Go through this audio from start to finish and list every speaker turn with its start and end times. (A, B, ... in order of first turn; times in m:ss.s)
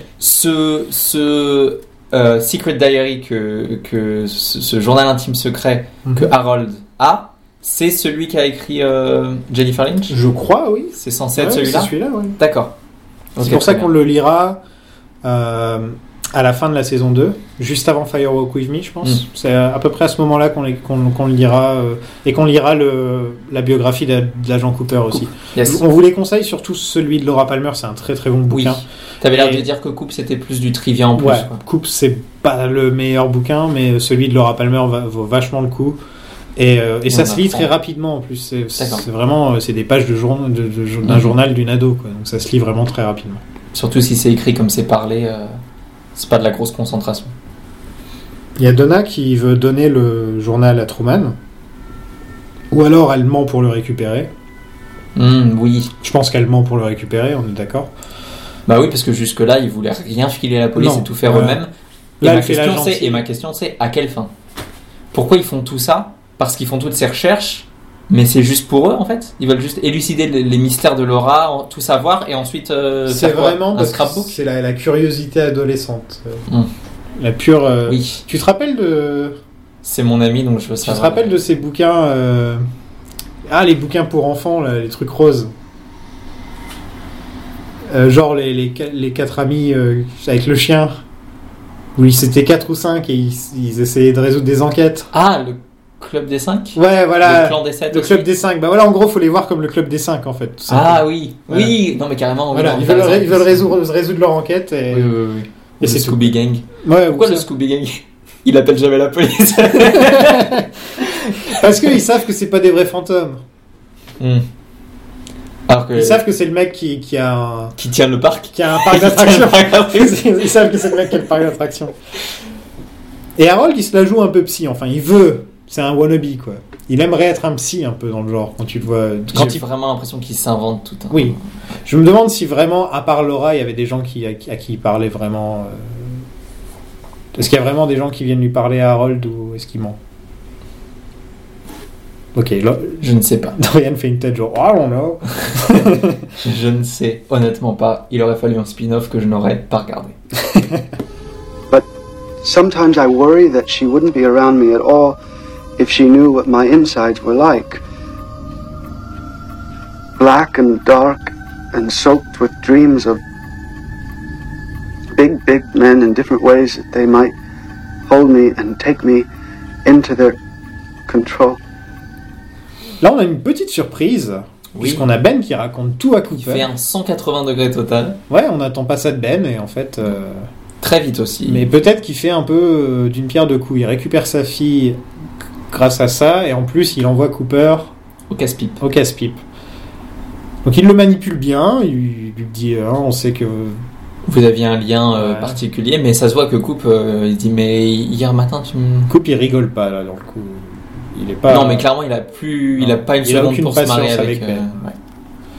0:00.2-0:10.2 A
0:06.0-0:06.3 B
0:10.1-0:12.4 B
0:11.0-0:12.7 A
0:13.4-0:13.9 A
0:13.4-0:14.6 B
0:15.2-0:29.7 B
0:25.4-0:25.8 A
0:28.5-0:31.6 A
0:31.1-0:36.0 B
0:36.6-0:43.4 B
0:37.1-0:37.7 A
0:38.8-0:39.0 A
0:41.0-0:41.3 A
0:43.7-0:45.6 A
0:46.1-0:47.3 A
0:48.6-0:51.4 B
0:52.7-0:54.3 B
0:55.2-0:55.9 A
0:56.0-0:57.9 B
0:58.7-1:01.7 A
1:00.8-1:01.6 B
1:02.2-1:03.2 B
1:02.2-1:04.3 A
1:05.1-1:14.3 A
1:13.1-1:16.4 B
1:17.2-1:19.4 B
1:17.9-1:18.2 A
1:19.8-1:21.3 A
1:20.8-1:22.6 B
1:23.5-1:25.5 B
1:27.9-1:31.0 B
1:32.0-1:35.1 B
1:35.1-1:38.3 A
1:36.7-1:41.8 B
1:40.7-1:43.7 A
1:42.5-1:45.1 B
1:44.9-1:51.6 A
1:45.8-1:47.5 B
1:49.8-1:50.7 B
1:51.4-1:53.4 B
1:54.2-1:54.4 A
1:55.7-1:56.2 A
1:55.9-1:57.7 B
1:57.8-2:00.2 A
1:58.5-2:01.9 B
2:03.4-2:09.6 B
2:09.3-2:11.4 A
2:11.1-2:16.2 B
2:17.3-2:20.0 B
2:22.3-2:23.0 B
2:23.0-2:23.6 A
2:23.6-2:26.3 B
2:26.4-2:30.2 A
2:32.4-2:35.2 C
2:35.8-2:37.8 C
2:40.2-2:43.2 C
2:45.1-2:47.3 C
2:48.1-2:49.3 C
2:49.8-2:50.4 C
2:51.1-2:51.6 C
2:53.0-2:56.7 B
2:54.7-2:55.1 A
2:56.3-2:58.2 A
2:58.3-3:00.5 B
3:00.8-3:01.7 A
3:01.4-3:05.0 B
3:05.7-3:07.9 B
3:08.3-3:08.8 A
3:08.8-3:09.4 B
3:10.6-3:13.8 B
3:14.2-3:19.1 A
3:15.1-3:15.6 B
3:19.1-3:21.9 B
3:21.5-3:24.9 A
3:22.8-3:24.8 B